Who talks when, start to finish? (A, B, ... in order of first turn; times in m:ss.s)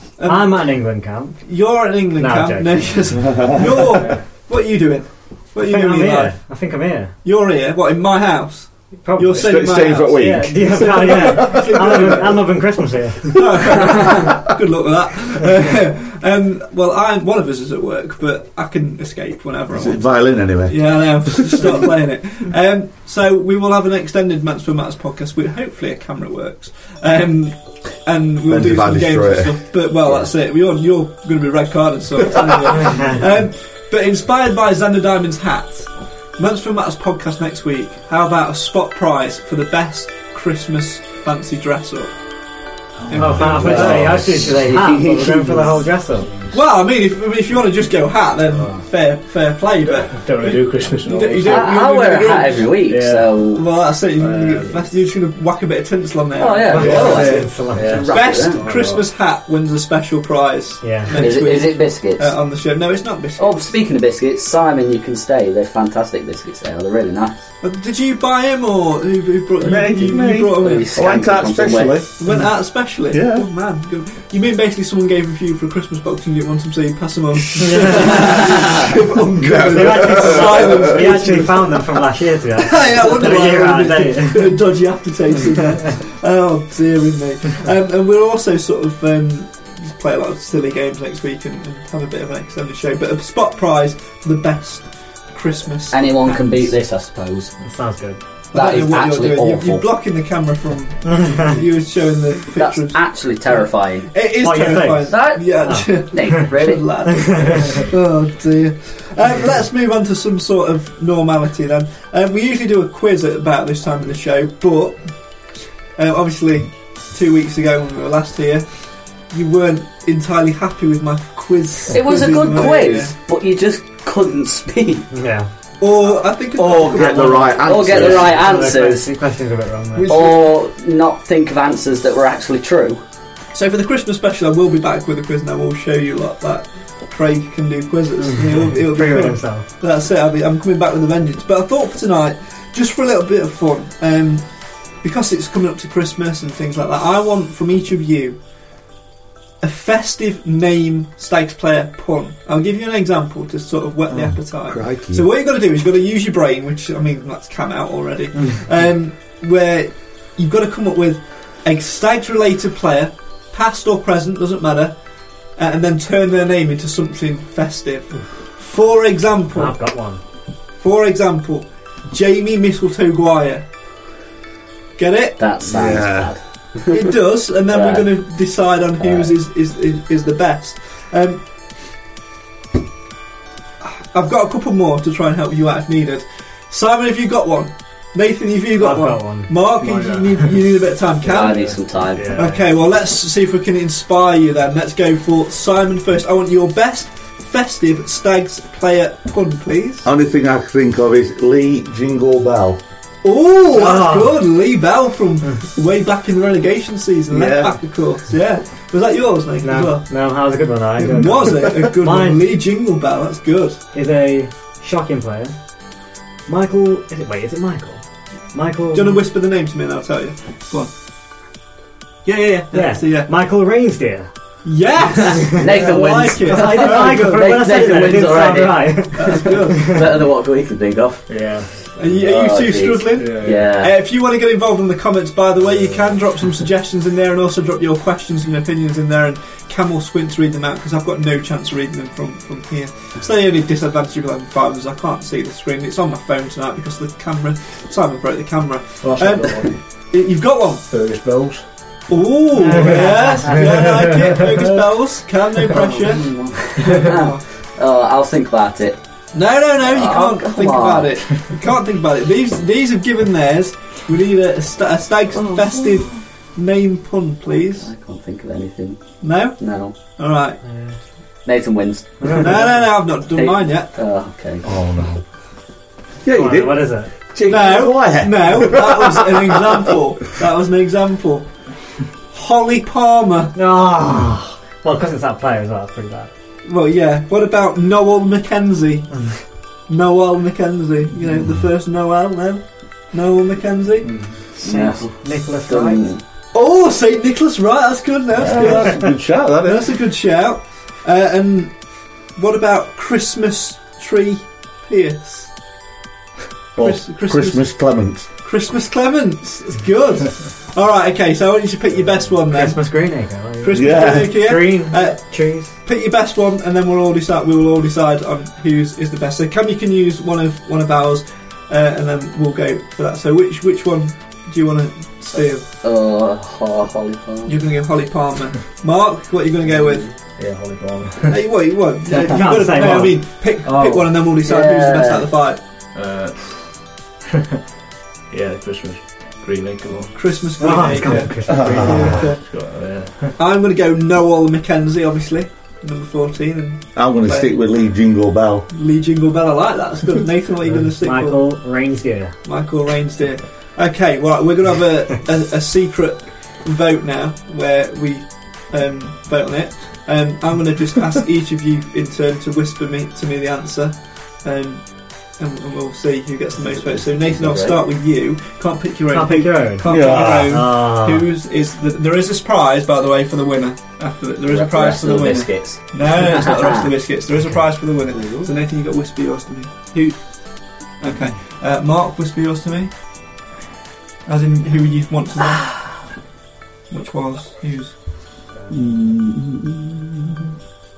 0:00.2-0:00.6 A
0:00.2-0:01.4 B
0:01.5-0:06.4 A
0:02.2-0:03.2 B
0:03.3-0:03.6 C
0:04.0-0:04.2 D
0:05.6-0:07.1 B
0:07.2-0:12.4 A
0:09.0-0:13.5 B
0:09.4-0:11.9 C
0:13.3-0:20.1 A
0:19.7-0:21.9 C
0:20.6-0:42.1 A
0:28.5-0:29.6 C
0:32.8-0:33.2 B
0:43.0-0:44.6 D
0:43.1-0:44.2 A
0:43.2-0:46.3 B
0:43.6-0:45.8 E
0:46.2-0:46.6 D
0:46.5-0:52.7 A
0:48.5-0:48.8 D
0:49.9-0:51.9 D
0:51.4-0:53.6 E
0:52.7-0:53.4 D
0:53.6-0:57.5 A
0:54.2-0:54.9 D
0:56.4-0:58.7 E
0:56.7-0:58.1 B
0:56.7-0:59.1 D
0:58.1-1:03.7 A
1:00.8-1:01.2 B
1:01.1-1:02.3 E
1:03.4-1:07.4 E
1:07.6-1:10.9 A
1:09.6-1:12.1 C
1:10.6-1:12.0 E
1:12.2-1:21.8 A
1:13.1-1:13.5 C
1:17.6-1:18.4 B
1:18.8-1:21.1 C
1:19.7-1:24.6 B
1:22.6-1:36.4 A
1:35.9-1:37.5 E
1:37.6-1:38.2 B
1:38.5-1:55.1 A
1:38.5-1:39.9 E
1:41.1-1:41.5 B
1:42.6-1:44.1 E
1:44.4-1:46.4 B
1:45.1-1:47.2 E
1:47.2-1:47.8 B
1:56.0-2:03.1 A
2:01.9-2:05.1 E
2:05.1-2:05.5 B
2:05.8-2:07.6 A
2:06.6-2:08.4 C
2:07.4-2:10.2 B
2:07.6-2:09.1 E
2:10.0-2:10.5 A
2:10.1-2:13.0 E
2:13.5-2:24.5 A
2:18.2-2:19.7 B
2:25.0-2:28.4 A
2:29.6-2:45.0 A
2:34.1-2:35.3 C
2:45.6-2:49.8 A
2:49.6-2:50.2 B
2:50.8-2:53.7 A
2:55.0-2:55.4 A
2:55.4-2:57.1 E
2:55.6-2:56.4 C
2:56.9-3:01.4 A
2:57.7-2:58.1 E
2:59.0-2:59.3 E
3:03.8-3:11.8 A
3:08.8-3:09.5 B
3:09.8-3:10.5 D
3:11.3-3:12.4 E
3:11.3-3:12.4 D
3:12.2-3:12.7 B
3:12.3-3:20.1 A
3:20.0-3:22.8 C
3:23.2-3:30.2 A
3:23.7-3:24.4 B
3:27.3-3:27.8 C
3:29.6-3:32.4 B
3:31.0-3:33.8 A
3:33.9-3:35.6 B
3:36.5-3:39.2 B
3:38.9-3:40.9 A
3:42.2-3:43.3 A
3:42.7-3:44.3 B
3:44.6-3:47.5 A
3:45.6-3:51.3 E
3:46.5-3:50.0 B
3:49.2-3:50.0 A
3:51.3-3:52.2 D
3:52.0-4:10.8 A
3:52.2-3:53.9 E
3:53.2-3:53.8 D
3:55.7-3:56.0 D
4:09.0-4:09.8 D
4:10.9-4:11.6 D
4:12.1-4:17.4 A
4:12.7-4:14.2 D
4:12.7-4:13.1 B
4:15.7-4:19.0 E
4:19.3-4:27.9 A
4:19.8-4:21.2 E
4:25.4-4:26.2 E
4:27.8-4:30.0 E
4:29.2-4:30.6 A
4:30.6-4:31.0 B
4:31.4-4:32.8 E
4:32.2-4:32.5 B
4:32.3-4:34.0 A
4:33.3-4:34.7 E
4:34.6-4:35.2 C
4:36.2-4:39.8 C
4:36.3-4:37.1 B
4:37.5-4:41.5 A
4:42.3-4:43.6 A
4:43.6-4:46.3 B
4:46.6-4:49.3 A
4:49.9-4:54.1 A
4:54.0-4:54.4 D
4:54.6-4:56.1 B
4:54.6-4:55.1 E
4:55.7-4:56.2 E
4:56.5-5:01.8 A
4:58.4-4:59.9 C
5:02.4-5:05.5 A
5:06.8-5:08.3 C
5:06.8-5:07.8 A
5:08.4-5:12.8 A
5:12.5-5:15.7 B
5:13.6-5:25.7 A
5:13.7-5:14.5 C
5:25.8-5:27.5 E
5:27.5-5:30.1 A
5:29.7-5:30.1 E
5:30.2-5:31.5 D
5:31.3-5:35.6 A
5:32.2-5:33.2 B
5:33.6-5:34.2 D
5:34.4-5:35.3 E
5:35.9-5:36.8 D
5:38.3-5:40.2 D
5:40.2-5:42.4 A
5:40.6-5:42.3 B
5:41.0-5:43.4 D
5:41.5-5:42.1 C
5:43.4-5:47.6 A
5:47.0-5:48.7 C
5:48.7-5:51.5 A
5:51.0-5:52.3 B
5:52.4-6:22.9 A
6:06.7-6:07.8 E
6:09.1-6:11.3 B
6:09.9-6:10.6 C
6:14.5-6:16.9 E
6:18.1-6:18.5 E
6:24.3-6:26.0 A
6:26.9-6:28.0 A
6:28.7-6:30.5 C